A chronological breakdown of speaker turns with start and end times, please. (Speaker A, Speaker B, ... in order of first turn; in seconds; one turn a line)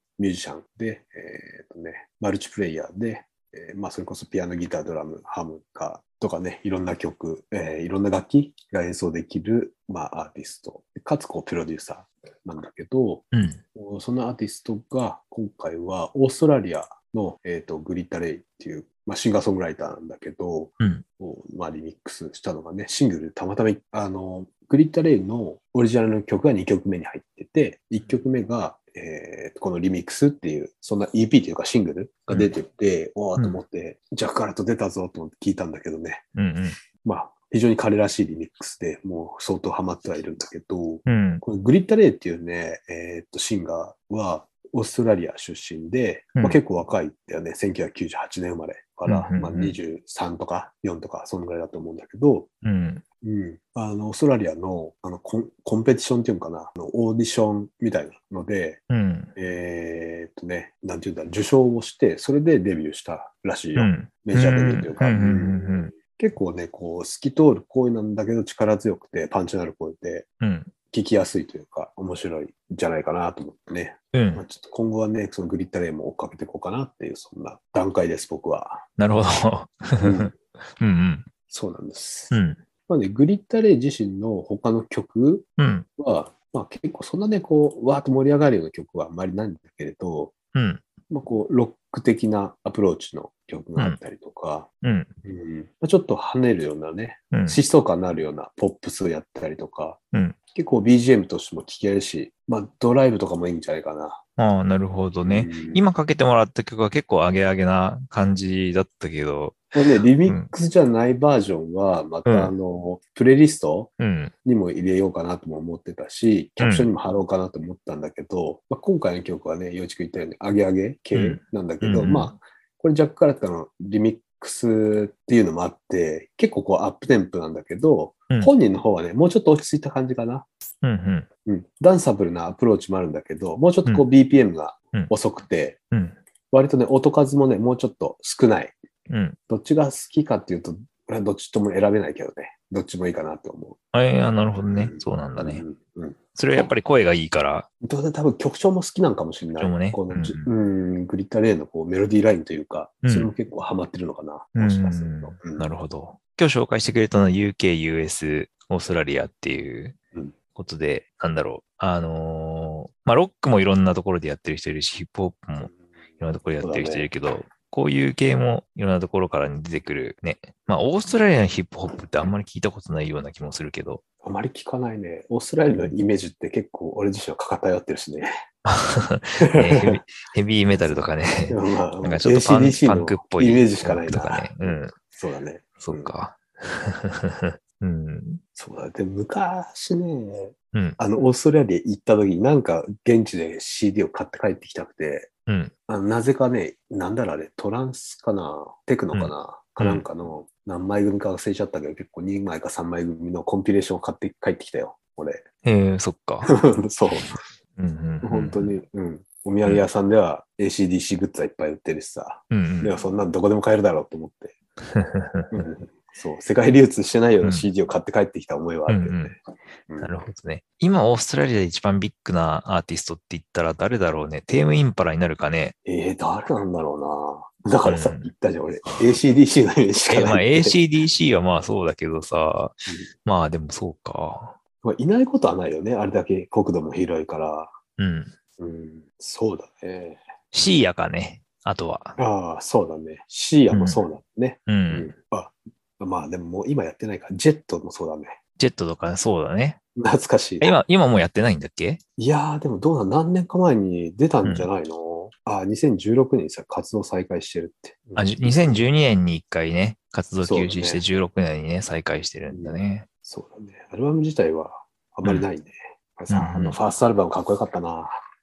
Speaker A: 0.2-36.2
Speaker B: 13.3-13.6
Speaker B: 36.4-36.8
Speaker A: 37.0-52.5
Speaker B: 41.1-41.4
Speaker B: 49.1-49.8
Speaker B: 52.6-53.0
Speaker A: 53.2-58.8
Speaker B: 58.9-59.3
Speaker A: 59.4-70.2
Speaker B: 63.8-65.9
Speaker B: 70.4-70.7
Speaker A: 70.9-78.8
Speaker B: 74.1-74.4
Speaker B: 79.0-81.2
Speaker A: 80.0-80.3
Speaker A: 81.5-90.3
Speaker B: 82.3-82.6
Speaker B: 85.6-85.9
Speaker B: 90.5-90.8
Speaker A: 91.1-94.7
Speaker B: 94.8-95.1
Speaker A: 95.2-100.0
Speaker B: 97.3-97.6
Speaker A: 100.5-104.2
Speaker B: 104.4-109.7
Speaker A: 105.2-105.9
Speaker A: 109.7-113.9
Speaker B: 110.2-110.5
Speaker B: 112.2-112.5
Speaker B: 114.0-114.3
Speaker A: 114.4-130.5
Speaker B: 116.6-116.9
Speaker B: 121.1-122.3
Speaker B: 130.8-131.3
Speaker A: 131.4-135.8
Speaker B: 135.9-136.2
Speaker A: 136.5-138.8
Speaker B: 139.1-139.4
Speaker A: 139.5-143.8
Speaker B: 143.9-145.6
Speaker A: 144.6-146.7
Speaker B: 146.3-147.7
Speaker A: 147.8-155.7
Speaker B: 149.6-150.5
Speaker B: 153.0-153.3
Speaker B: 154.6-160.0
Speaker B: 160.6-174.0
Speaker A: 166.6-167.1
Speaker A: 174.2-178.3
Speaker B: 178.6-184.9
Speaker A: 179.4-180.0
Speaker A: 181.5-186.1
Speaker B: 185.8-188.4
Speaker A: 188.6-195.3
Speaker B: 190.7-191.0
Speaker B: 195.5-195.7
Speaker A: 195.9-205.4
Speaker B: 199.1-200.1
Speaker B: 205.6-206.5
Speaker A: 206.4-207.4
Speaker B: 207.2-208.7
Speaker A: 208.2-214.6
Speaker B: 212.5-212.9
Speaker B: 214.9-215.7
Speaker A: 215.5-220.1
Speaker B: 217.4-217.7
Speaker B: 218.9-219.4
Speaker B: 220.0-225.8
Speaker A: 225.8-230.8
Speaker B: 227.8-228.3
Speaker B: 230.1-234.6
Speaker A: 234.8-237.7
Speaker B: 238.0-238.3
Speaker A: 238.6-240.2
Speaker B: 240.5-242.2
Speaker A: 242.2-248.4
Speaker B: 243.7-244.0
Speaker B: 244.7-245.1
Speaker B: 248.6-249.8
Speaker A: 250.0-250.8
Speaker B: 250.6-252.0
Speaker A: 252.2-258.8
Speaker B: 258.1-263.1
Speaker A: 260.4-261.0
Speaker A: 262.5-268.2
Speaker B: 266.3-266.8